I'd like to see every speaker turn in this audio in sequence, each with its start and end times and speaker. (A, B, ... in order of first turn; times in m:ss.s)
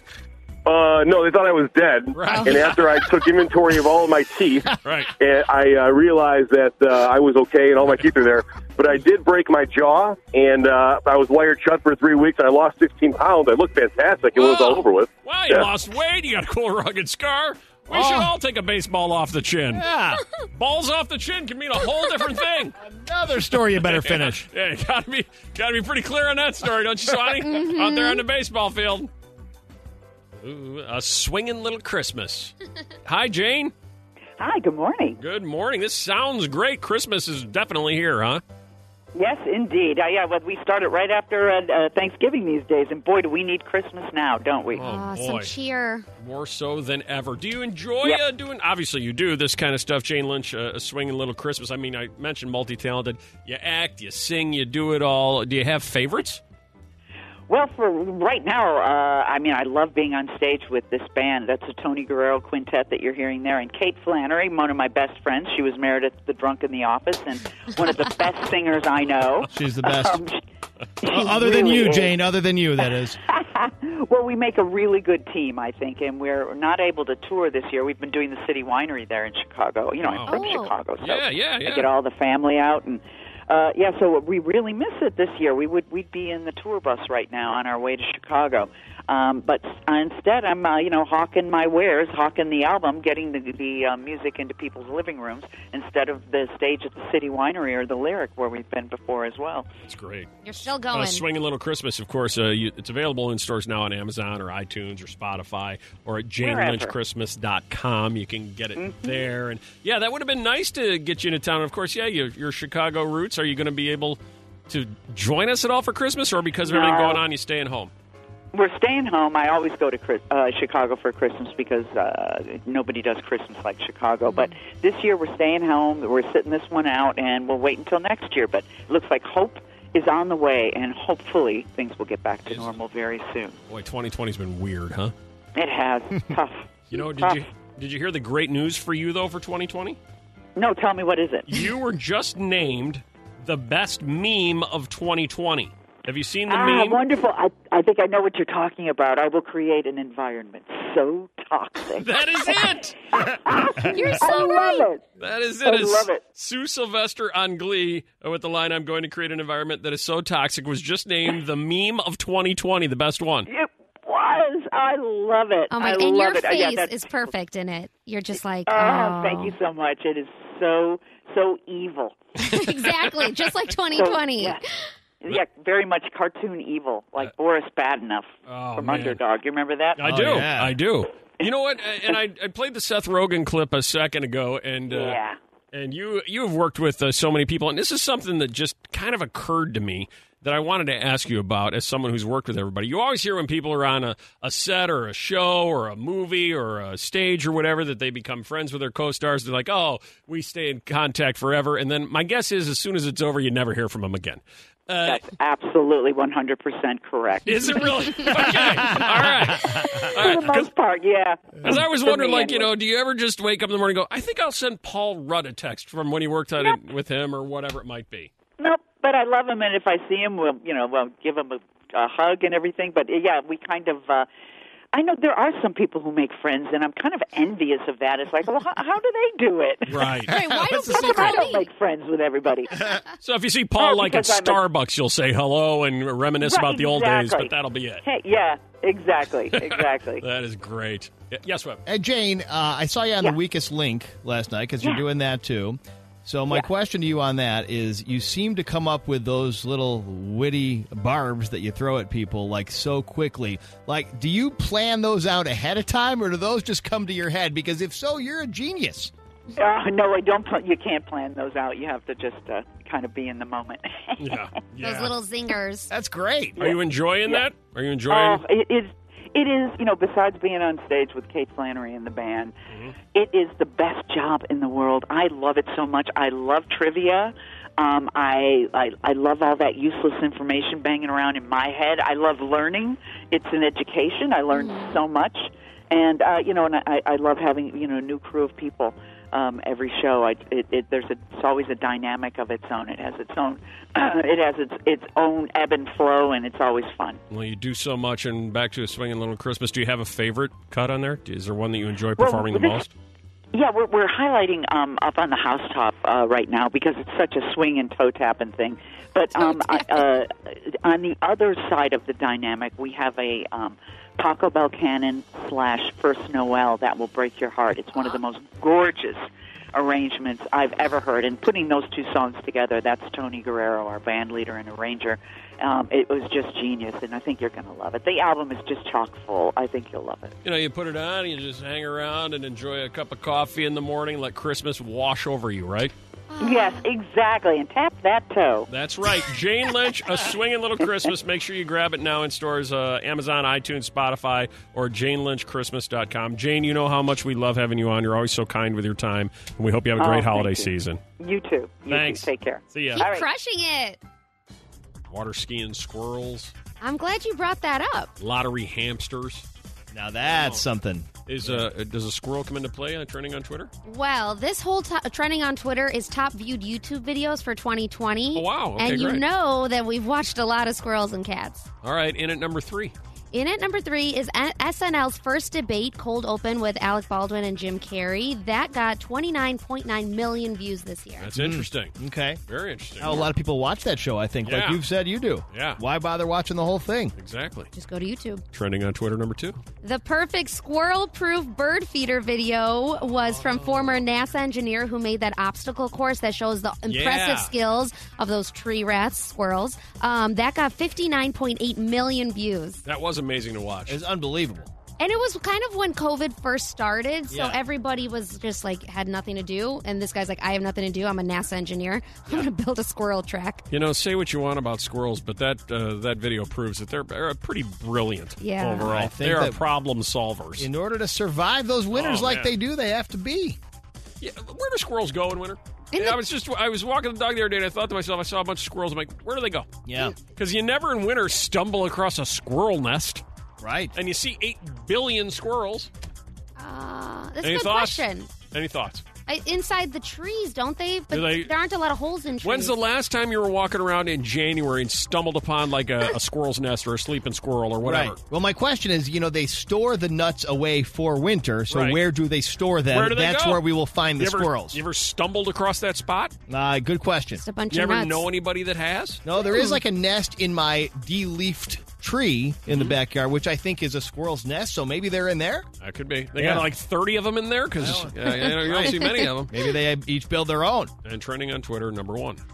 0:00.7-0:15.7 A
0:02.1-0:02.9 B
0:02.3-0:02.8 C
0:04.8-0:05.1 B
0:14.4-0:19.9 B
0:17.9-0:18.3 D
0:19.7-0:20.2 D
0:20.5-0:22.8 B
0:22.8-0:24.5 D
0:23.7-0:29.1 B
0:27.5-0:28.2 C
0:30.4-0:33.7 B
0:34.4-0:35.2 E
0:35.2-0:38.4 B
0:39.1-0:44.9 E
0:44.7-0:45.5 B
0:44.8-0:46.0 C
0:46.2-0:56.4 B
0:57.5-1:10.4 E
1:09.5-1:10.2 D
1:11.0-1:12.2 E
1:11.1-1:13.2 D
1:12.8-1:39.7 E
1:20.0-1:21.9 B
1:20.3-1:20.9 C
1:39.9-1:57.9 B
1:40.4-1:41.2 C
1:46.4-1:46.9 E
1:48.8-1:49.2 E
1:56.6-1:57.2 E
1:58.5-2:13.6 E
2:04.3-2:04.5 C
2:12.5-2:12.8 B
2:13.7-2:15.1 B
2:15.6-2:17.4 E
2:16.9-2:20.0 B
2:20.6-2:21.7 E
2:21.5-2:27.0 B
2:26.5-2:35.0 E
2:32.0-2:33.0 B
2:33.9-2:34.9 C
2:35.2-2:43.5 B
2:35.6-2:36.2 E
2:43.5-2:47.3 E
2:45.7-2:49.6 C
2:48.7-2:52.2 E
2:52.4-2:54.8 C
2:53.9-2:54.6 E
2:55.2-3:00.2 E
2:58.5-2:59.2 B
3:00.0-3:05.2 B
3:00.0-3:00.8 D
3:04.9-3:05.4 E
3:05.7-3:25.2 B
3:25.0-3:27.8 E
3:27.5-3:30.7 B
3:30.0-3:32.7 E
3:31.6-3:38.3 B
3:38.6-3:44.3 E
3:44.9-3:50.2 E
3:49.9-3:50.3 B
3:50.3-3:51.6 C
3:50.3-3:51.2 D
3:50.8-3:52.9 E
3:53.2-3:58.0 B
3:53.8-3:54.6 E
3:56.4-3:57.5 E
3:58.0-4:00.2 E
3:59.6-4:01.8 B
4:01.9-4:19.1 D
4:19.6-4:24.5 E
4:24.2-4:25.1 B
4:24.8-4:25.9 C
4:25.9-4:26.7 D
4:26.6-4:28.4 B
4:26.6-4:27.4 E
4:28.1-4:32.6 E
4:33.1-4:57.2 E
4:44.5-4:45.0 C
4:57.3-5:02.9 B
5:02.2-5:02.8 E
5:03.5-5:30.4 E
5:09.4-5:10.0 C
5:30.4-5:35.9 B
5:36.3-5:36.8 C
5:36.4-5:38.7 E
5:38.7-5:51.0 B
5:50.0-5:53.3 E
5:51.9-5:53.1 B
5:53.0-5:54.0 C
5:55.1-5:56.5 B
5:56.8-5:58.1 C
5:58.2-5:59.5 B
5:59.9-6:01.7 D
6:00.2-6:00.6 B
6:01.3-6:03.7 B
6:03.9-6:11.7 C
6:08.3-6:09.2 B
6:11.8-6:13.0 B
6:13.3-6:21.3 C
6:21.2-6:22.0 B
6:21.3-6:22.4 D
6:22.5-6:23.2 B
6:23.0-6:27.1 D
6:24.4-6:24.8 B
6:25.5-6:25.8 B
6:27.2-6:27.7 B
6:27.8-6:28.4 C
6:28.5-6:29.6 B
6:29.8-6:42.8 C
6:33.0-6:34.0 B
6:36.9-6:37.5 B
6:42.8-6:44.0 B
6:43.9-6:44.7 D
6:45.0-6:53.6 C
6:47.3-6:47.6 D
6:53.7-7:00.7 B
6:58.4-6:58.9 C
6:58.8-6:59.6 D
7:00.6-7:03.6 D
7:01.9-7:02.5 B
7:04.2-7:09.7 B
7:05.9-7:06.2 C
7:09.9-7:10.2 D
7:10.4-7:13.2 B
7:13.6-7:13.9 D
7:14.0-7:15.9 B
7:16.6-7:18.3 C
7:17.4-7:19.0 B
7:19.3-7:22.7 C
7:21.1-7:21.5 B
7:22.4-7:28.2 B
7:27.8-7:34.8 D
7:31.7-7:32.0 B
7:32.9-7:33.6 B
7:34.2-7:36.4 B
7:36.5-7:37.4 D
7:37.4-7:38.3 C
7:37.7-7:39.2 B
7:39.2-7:45.7 D
7:39.5-7:39.8 C
7:45.8-7:49.5 B
7:46.4-7:46.7 D
7:47.8-7:50.9 D
7:48.3-7:49.3 C
7:51.0-7:52.4 B